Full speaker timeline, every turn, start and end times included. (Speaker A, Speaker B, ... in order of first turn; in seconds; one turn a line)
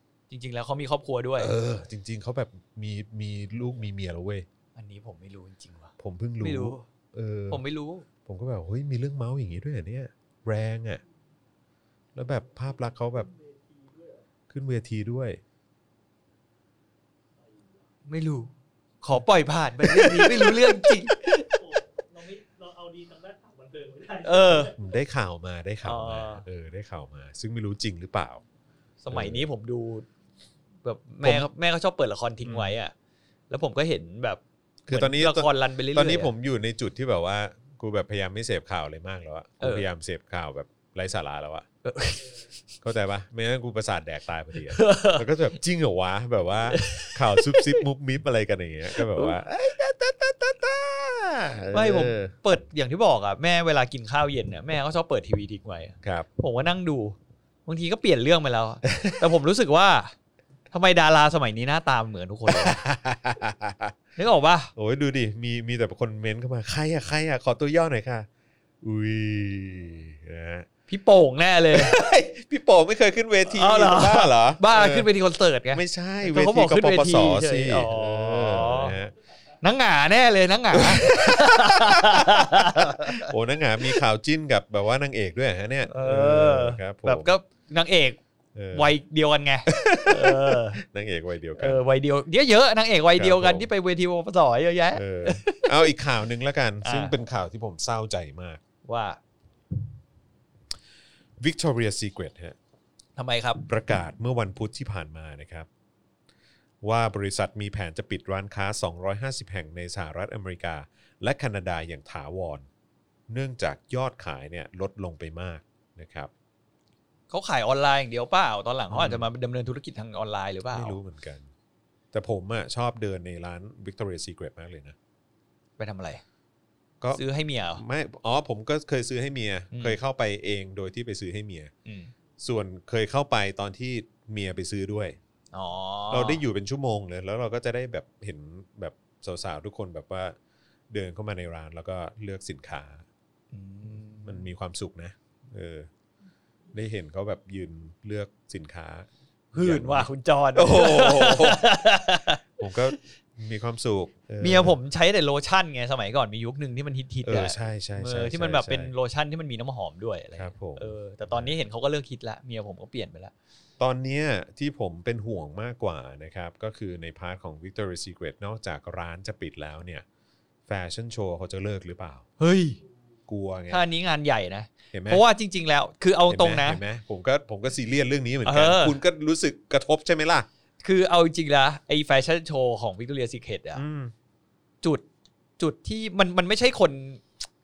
Speaker A: 0.3-1.5
Speaker B: 1.4-4.5
Speaker A: 4.8-6.8
Speaker B: 6.0-7.6
Speaker A: 7.5-8.1
Speaker B: 8.2-11.0
Speaker B: 12.1-13.3
Speaker C: 12.9-14.2
Speaker B: 14.5-15.4
Speaker C: 17.4-17.8
Speaker A: 18.1-18.5
Speaker A: 19.0-21.5
Speaker B: 19.8-21.0
Speaker C: 21.4-24.7
Speaker A: 24.2-24.7
Speaker B: 24.7-28.4
Speaker A: 25.8-26.4
Speaker A: 29.0-30.1
Speaker B: 29.1-29.4
Speaker A: 30.8-32.9
Speaker B: 31.2-31.5
Speaker B: 32.4-32.8
Speaker A: 33.5-36.3
Speaker B: 34.9-41.6
Speaker A: 39.6-39.9
Speaker A: 41.8-42.3
Speaker B: 42.8-52.3
Speaker A: 44.7-45.2
Speaker A: 46.7-47.8
Speaker A: 49.0-49.4
Speaker A: 51.7-60.1
Speaker B: 56.0-56.3
Speaker B: 58.9-59.3
Speaker A: 60.7-62.8
Speaker B: 62.5-63.9
Speaker A: 64.2-64.7
Speaker B: 64.7-68.3
Speaker B: 68.8-70.7
Speaker A: 70.9-72.0
Speaker B: 71.7-75.1
Speaker A: 73.5-79.0
Speaker B: 75.7-79.1
Speaker A: 79.6-83.3
Speaker B: 80.7-87.3
Speaker A: 85.9-88.2
Speaker B: 88.5-88.9
Speaker A: 88.7-90.8
Speaker B: 89.7-91.8
Speaker A: 91.6-95.7
Speaker B: 93.1-93.7
Speaker B: 94.9-98.6
Speaker A: 96.8-97.1
Speaker A: 98.8-99.2
Speaker B: 101.4-102.5
Speaker A: 103.2-103.6
Speaker B: 103.7-105.7
Speaker B: 106.8-112.7
Speaker B: 113.3-116.3
Speaker A: 117.3-121.0
Speaker B: 118.9-119.3
Speaker B: 120.7-121.5
Speaker B: 122.1-125.0
Speaker A: 125.8-126.2
Speaker A: 127.1-127.8
Speaker B: 127.8-131.7
Speaker A: 129.7-130.0
Speaker A: 131.8-132.1
Speaker B: 132.4-135.2
Speaker A: 135.5-136.4
Speaker B: 136.1-140.3
Speaker B: 140.9-143.0
Speaker A: 143.5-144.5
Speaker B: 144.2-145.9
Speaker B: 146.7-151.7
Speaker A: 149.5-152.4
Speaker B: 152.6-154.8
Speaker A: 154.4-163.3
Speaker B: 157.2-158.9
Speaker B: 160.3-161.5
Speaker B: 163.8-170.0
Speaker B: 170.7-172.2
Speaker A: 172.4-172.8
Speaker B: 173.3-173.8
Speaker A: 173.7-176.8
Speaker B: 174.9-175.2
Speaker B: 176.3-180.5
Speaker A: 178.4-179.0
Speaker A: 180.8-183.8
Speaker B: 183.7-184.1
Speaker A: 185.6-187.2